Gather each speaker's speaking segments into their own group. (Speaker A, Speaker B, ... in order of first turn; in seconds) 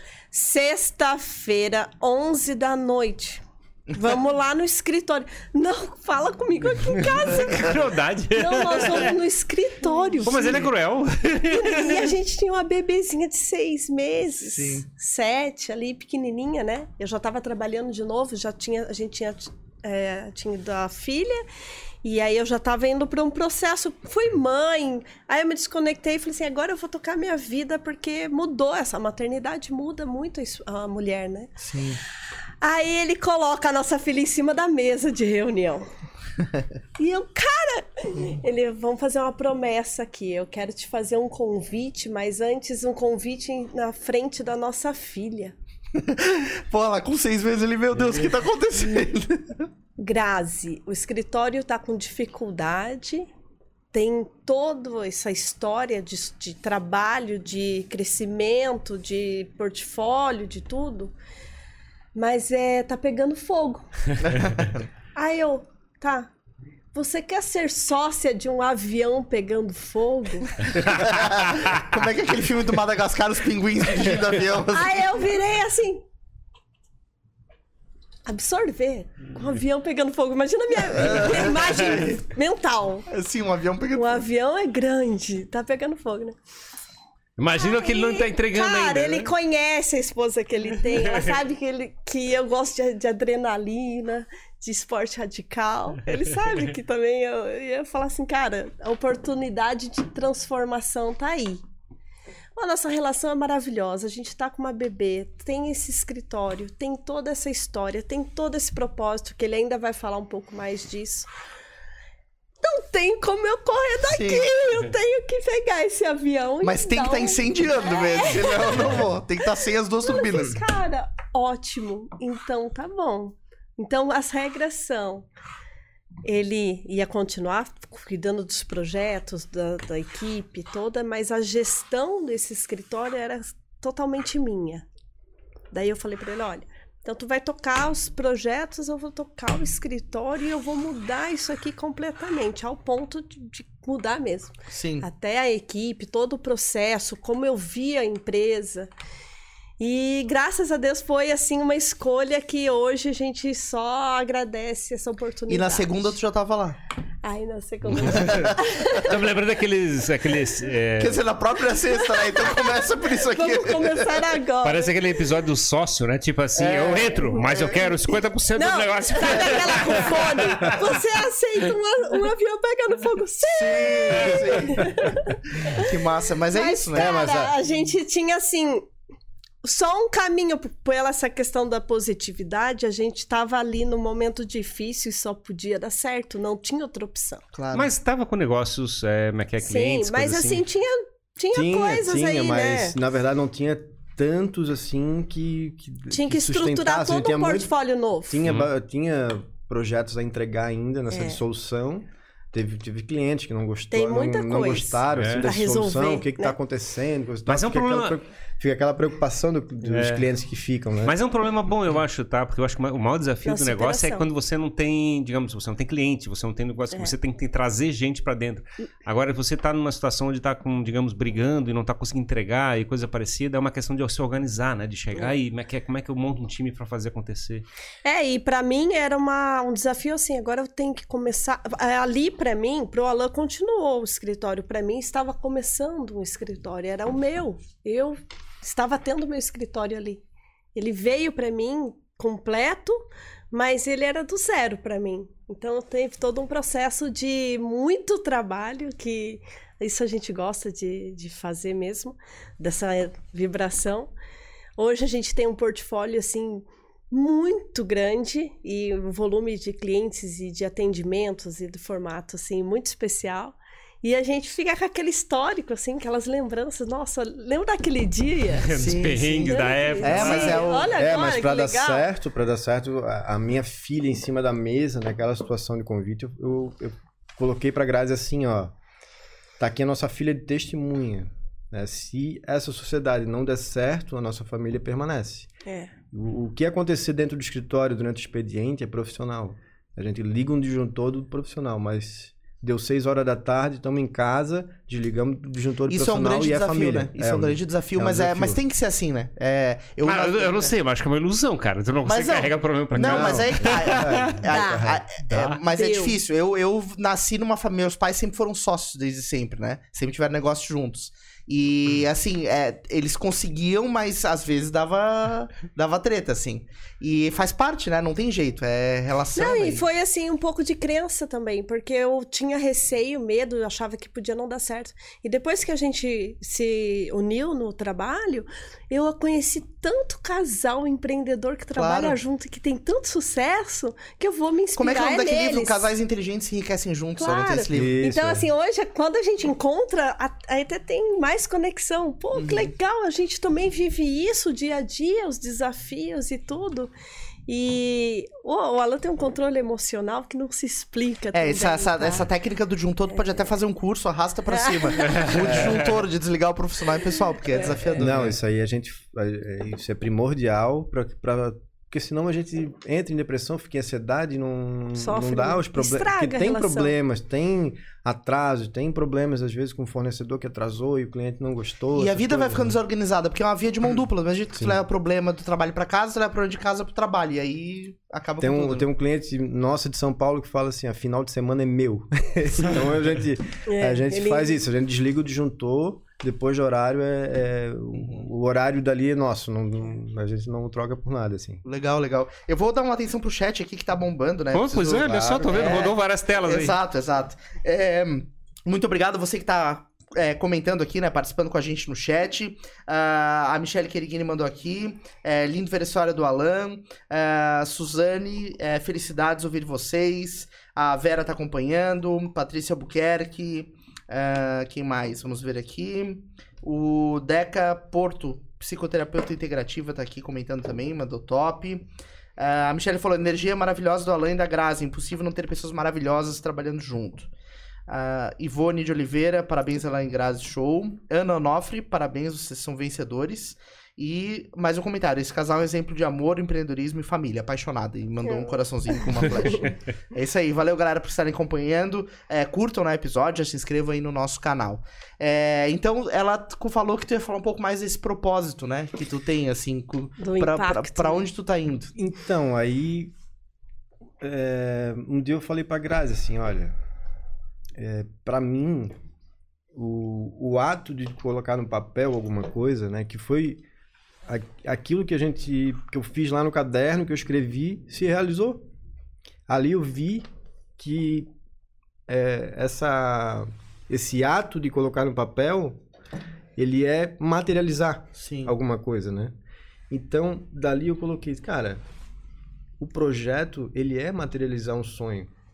Speaker A: 0.3-7.8, 8.3-10.7, 11.5-21.4, 22.0-31.6, 32.6-35.9, 37.0-45.5, 50.0-53.3, 53.9-61.1, 62.1-64.0, 65.1-66.3, 66.9-70.9, 74.7-76.0, 78.2-83.1, 83.9-86.3, 87.5-101.6, 102.5-111.3, 112.6-119.0, 120.0-125.2, 126.2-134.8, 135.7-148.9, 149.8-156.1, 157.2-159.1, 161.9-165.0, 167.1-167.8, 168.6-175.9, 176.5-178.8, 179.6-187.4, 189.6-193.0, 196.1-198.4, 201.1-201.4, 203.9-206.5, 213.4-214.2, 228.0-240.2, 240.7-243.0, 243.5-254.1, 254.8-268.8, 269.4-272.1, 285.6-285.9, 304.5-304.9, 305.7-306.2, 319.3-335.9, 337.2-346.9, 347.5-352.3, 354.5-355.3, 357.4-357.8, 364.9-366.9, 383.6-384.6, 438.2-438.5, 450.2-451.2
Speaker B: 7.0-9.1, 10.2-12.1, 87.4-89.3, 157.9-161.2, 164.6-171.0, 187.7-190.6, 198.4-198.7, 205.1-205.5, 207.5-208.2, 209.8-210.3, 211.0-227.6, 268.6-270.7, 300.0-304.4, 305.3-305.6, 355.0-355.8, 394.5-396.8
Speaker C: 14.4-14.8, 31.6-32.0, 45.9-49.7, 64.2-64.9, 70.9-75.1, 80.9-82.2, 83.1-84.2, 114.1-114.5, 116.6-120.6, 144.7-145.1, 155.5-156.8, 158.1-158.6, 161.0-164.2, 166.6-167.7, 173.5-177.1, 187.5-187.9, 268.7-270.9, 295.9-300.7, 302.1-319.8, 331.8-332.2, 334.8-338.0, 342.3-342.7, 351.3-358.4, 371.9-378.9, 387.9-388.3, 391.6-427.3, 427.9-451.9, 478.2-478.5
Speaker D: 176.9-177.6, 191.5-197.7, 198.3-211.1, 270.9-278.7, 279.6-285.5, 286.1-298.6, 302.9-305.0, 337.7-338.4, 355.4-355.8, 358.0-372.8, 378.4-391.6, 395.0-395.9, 451.9-453.1, 454.2-456.7, 457.8-458.9, 459.7-463.6, 464.2-468.6, 469.5-470.2, 470.8-471.3, 472.1-475.8, 476.6-479.3, 479.9-481.8, 482.8-485.3